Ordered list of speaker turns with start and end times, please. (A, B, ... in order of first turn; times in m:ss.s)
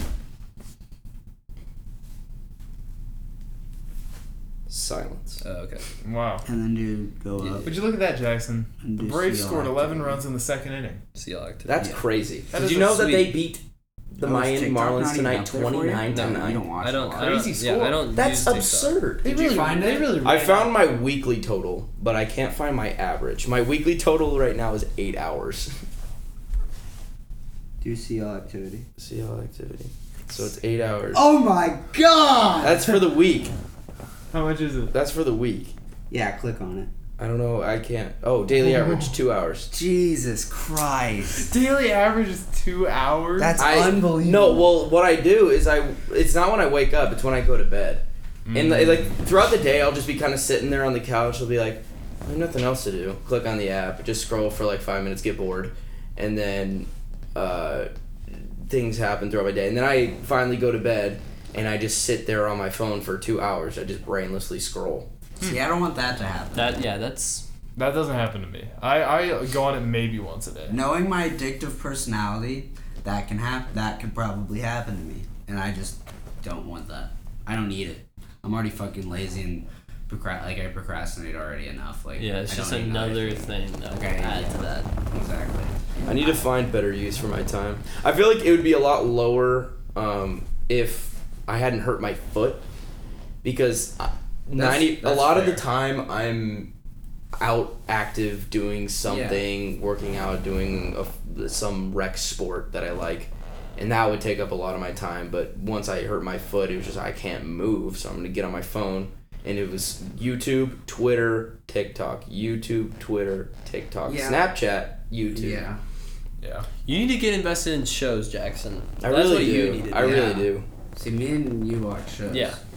0:04.7-0:05.4 A
0:05.4-0:05.9 B
0:06.0-0:06.5 C
0:06.4-0:07.8 D
0:07.4-0:07.6 B
0:07.6-0:11.0 C
0:08.8-0:10.2 D
0:11.2-0:11.9 B
0:11.6-0:13.6 A
0:12.5-0:13.4 C
0:14.1-0:16.7 A
0:14.2-0:18.0 D
0:16.1-0:19.1 B
0:18.1-0:19.3 A
0:19.2-0:20.7 C
0:19.2-0:20.5 D
0:20.2-0:25.8 A
0:27.8-0:28.9 D
0:29.0-0:31.3 A
0:31.1-0:33.0 D
0:32.6-0:33.5 A
0:34.3-0:34.9 C
0:34.9-0:35.8 A
0:36.1-0:36.9 D
0:37.2-0:39.7 A
0:38.6-0:39.1 D
0:39.7-0:41.5 D
0:41.3-0:43.7 C
0:43.4-0:44.7 D
0:43.6-1:05.1 A
0:48.5-0:49.2 C
1:05.4-1:06.8 D
1:06.5-1:07.4 B
1:07.8-1:10.8 C
1:10.7-1:26.4 D
1:22.2-1:24.9 B
1:26.0-1:32.6 A
1:33.4-1:36.7 A
1:34.6-1:35.6 D
1:37.4-1:55.7 A
1:39.0-1:39.4 D
1:54.1-1:54.5 D
1:55.3-1:55.8 D
1:56.4-1:56.7 C
1:56.8-2:00.3 B
1:59.0-2:00.7 A
1:59.9-2:02.6 D
2:02.3-2:02.6 B